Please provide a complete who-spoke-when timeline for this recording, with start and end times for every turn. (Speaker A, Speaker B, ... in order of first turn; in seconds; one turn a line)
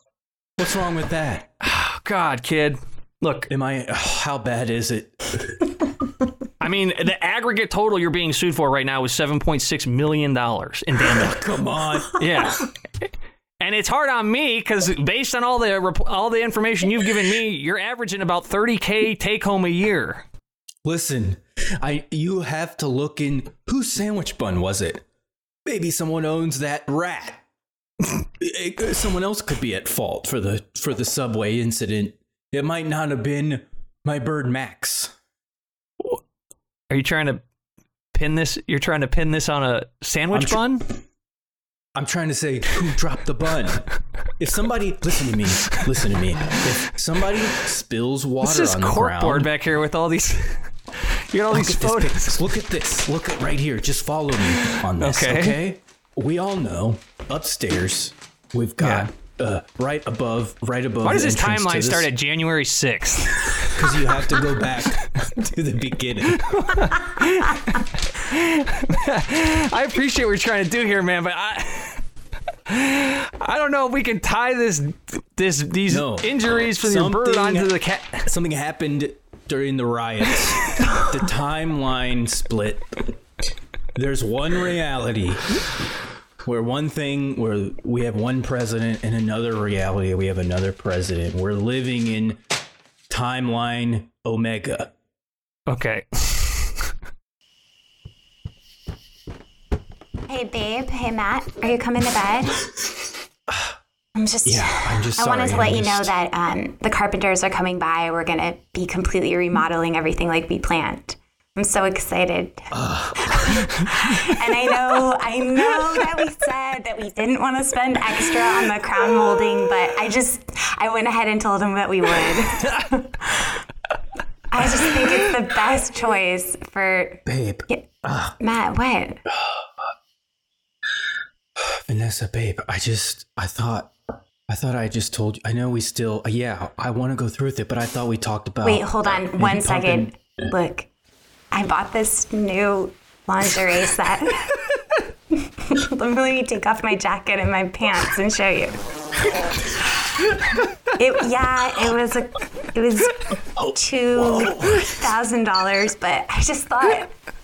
Speaker A: 0.6-1.5
Speaker B: 1.6-3.5
Speaker A: 3.5-5.7
Speaker B: 6.6-11.4
Speaker A: 11.1-12.6
Speaker B: 12.2-12.7
Speaker B: 13.6-20.2
Speaker A: 20.8-25.0
Speaker A: 25.6-27.4
Speaker A: 28.0-35.1
Speaker B: 36.9-37.4
Speaker B: 38.1-40.9
Speaker A: 40.3-40.6
Speaker A: 42.0-49.5
Speaker B: 48.4-52.4
Speaker A: 51.5-62.1
Speaker B: 54.6-55.6
Speaker B: 58.8-59.1
Speaker B: 61.0-63.9
Speaker A: 63.7-66.6
Speaker B: 66.4-72.0
Speaker B: 72.7-78.3
Speaker A: 75.9-83.2
Speaker A: 84.0-85.5
Speaker A: 86.4-92.4
Speaker A: 93.1-94.9
Speaker B: 95.7-96.8
Speaker C: 100.3-102.6
Speaker A: 103.5-103.8
Speaker C: 104.2-123.6
Speaker A: 104.5-106.1
Speaker A: 112.7-113.9
Speaker C: 124.5-127.9
Speaker A: 127.3-128.4
Speaker C: 128.4-129.2
Speaker A: 129.3-129.7
Speaker A: 131.6-133.9
Speaker A: 134.5-140.1
Speaker C: 138.6-140.9
Speaker C: 141.5-144.6
Speaker C: 145.3-148.8
Speaker C: 150.9-157.1
Speaker A: 153.6-155.0